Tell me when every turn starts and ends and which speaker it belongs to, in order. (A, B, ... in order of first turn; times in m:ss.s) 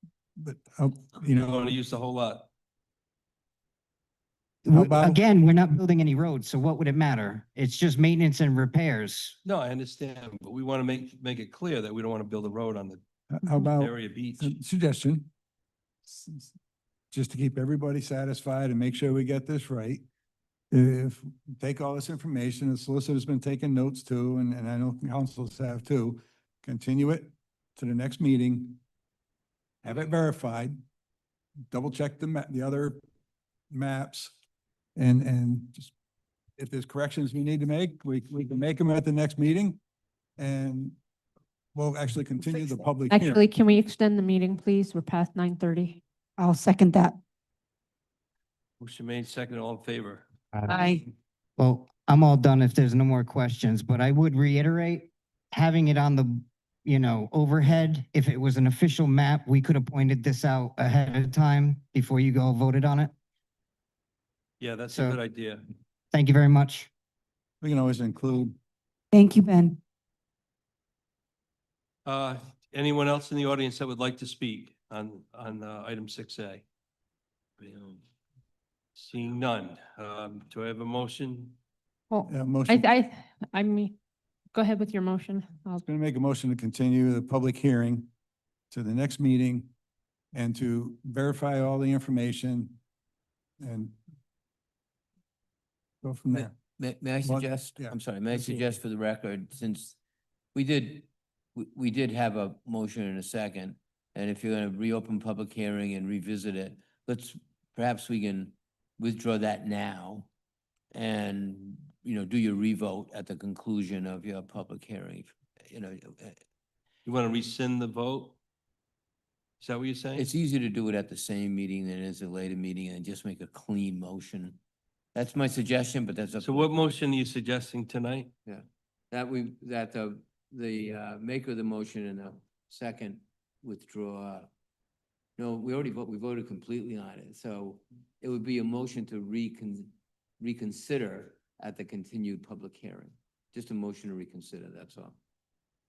0:00.4-0:01.6 A
0:01.4-0:02.5 B
0:04.6-0:09.4 C
0:04.7-0:05.2 A
0:09.4-0:14.6 B
0:13.3-0:15.3 A
0:16.1-0:16.5 A
0:17.1-0:20.0 A
0:20.7-0:28.8 A
0:29.8-0:30.8 A
0:31.7-0:33.0 A
0:33.7-0:34.4 A
0:35.0-0:35.9 A
0:36.6-0:39.8 A
0:40.4-0:41.0 A
0:41.8-0:43.4 A
0:43.1-0:46.0 D
0:46.4-0:47.2 E
0:48.8-0:50.2 B
0:50.7-0:51.0 E
0:51.6-1:03.1 C
1:04.6-1:05.6 B
1:04.9-1:05.2 C
1:06.1-1:06.9 C
1:07.6-1:08.6 A
1:09.1-1:09.8 E
1:12.1-1:16.6 B
1:17.6-1:18.0 B
1:19.0-1:21.6 B
1:22.1-1:24.0 D
1:22.3-1:22.8 A
1:24.5-1:25.8 D
1:25.9-1:28.1 A
1:28.7-1:29.7 A
1:30.3-1:32.8 A
1:33.6-1:34.0 A
1:36.0-1:36.5 A
1:36.4-1:40.0 F
1:37.2-1:38.5 A
1:40.5-1:50.3 F
1:50.9-1:56.4 F
1:57.0-1:58.4 B
1:59.6-2:00.3 B
2:00.2-2:04.6 F
2:05.2-2:06.7 F
2:06.4-2:08.3 B
2:08.5-2:14.5 F
2:15.4-2:25.2 F